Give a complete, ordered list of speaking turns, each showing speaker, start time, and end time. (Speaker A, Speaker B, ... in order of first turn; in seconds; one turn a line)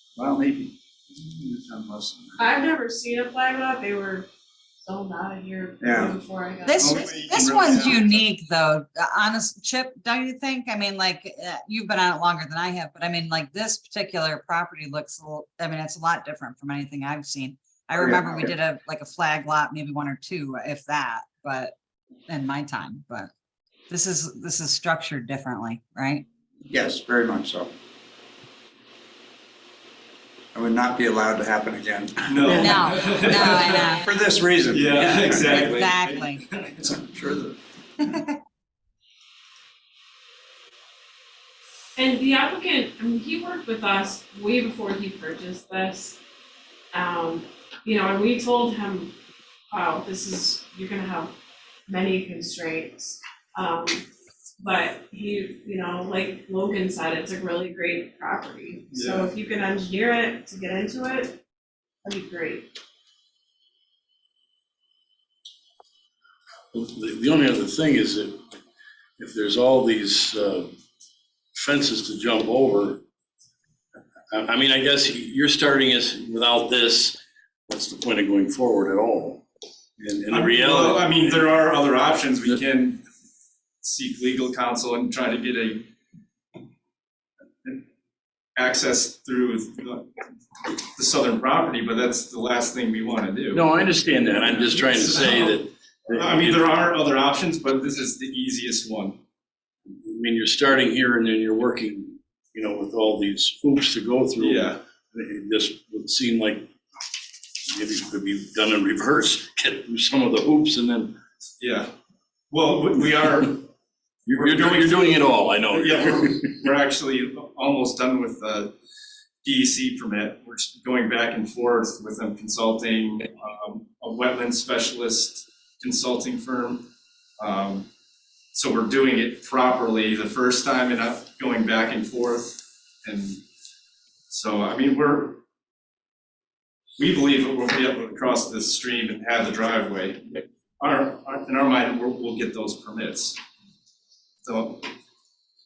Speaker A: 0.2-2.4
Speaker B: 2.4-4.3
Speaker B: 4.8-7.2
Speaker A: 5.8-6.2
Speaker C: 6.7-21.8
Speaker D: 6.8-8.2
Speaker A: 18.0-18.5
Speaker C: 22.3-23.3
Speaker C: 23.9-26.2
Speaker A: 26.7-27.7
Speaker A: 30.6-35.6
Speaker D: 32.3-34.1
Speaker C: 32.5-34.1
Speaker D: 34.7-37.6
Speaker C: 35.5-36.4
Speaker B: 42.0-46.2
Speaker B: 46.9-49.1
Speaker B: 49.7-51.3
Speaker B: 51.9-54.0
Speaker B: 54.6-61.4
Speaker D: 58.9-59.3
Speaker B: 62.0-62.7
Speaker E: 66.7-68.4
Speaker E: 69.2-70.7
Speaker E: 71.5-73.0
Speaker E: 74.3-79.4
Speaker E: 80.0-81.4
Speaker D: 80.3-83.0
Speaker D: 83.8-85.9
Speaker D: 88.6-90.1
Speaker D: 90.7-93.7
Speaker E: 93.5-96.7
Speaker D: 94.4-99.2
Speaker E: 100.0-106.7
Speaker D: 104.4-104.8
Speaker E: 107.7-111.2
Speaker D: 111.6-111.9
Speaker D: 112.5-113.7
Speaker E: 114.3-116.4
Speaker D: 114.3-118.8
Speaker D: 119.4-126.9
Speaker D: 127.4-127.9
Speaker D: 128.5-133.4
Speaker D: 134.3-135.4
Speaker D: 137.0-143.4
Speaker D: 144.4-144.9